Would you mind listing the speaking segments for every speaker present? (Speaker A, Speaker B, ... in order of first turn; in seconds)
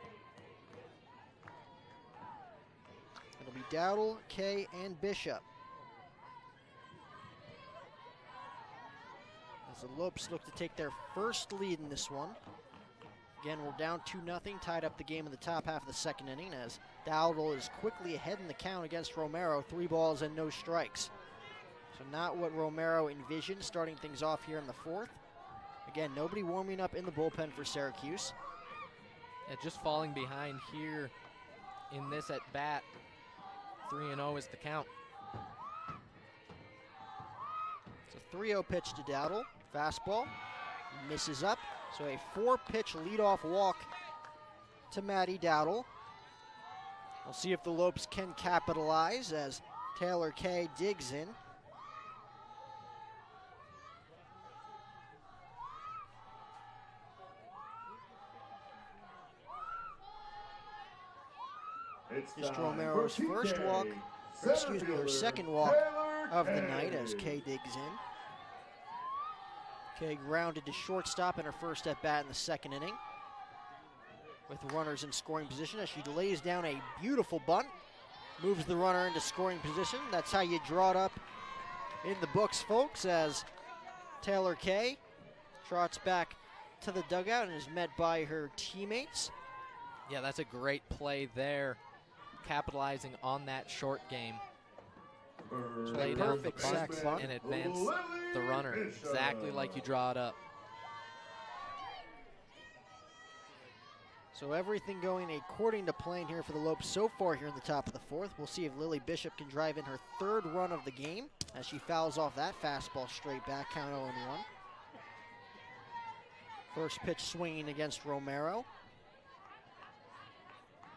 Speaker A: 3.4-5.4, 9.7-12.4, 13.4-21.1, 21.9-25.2, 25.9-28.3, 38.1-40.3, 40.9-43.9, 44.9-45.9, 47.2-51.4, 62.4-68.0, 69.9-73.0, 74.5-77.7, 78.4-81.2, 82.0-83.5, 84.2-85.0, 85.6-89.3, 95.9-97.3, 104.3-114.5, 116.7-118.7
Speaker B: 29.5-31.1, 31.9-32.9, 33.9-34.9, 90.1-91.8, 92.4-94.4, 95.9-100.4
Speaker C: 62.1-67.4, 95.5-100.0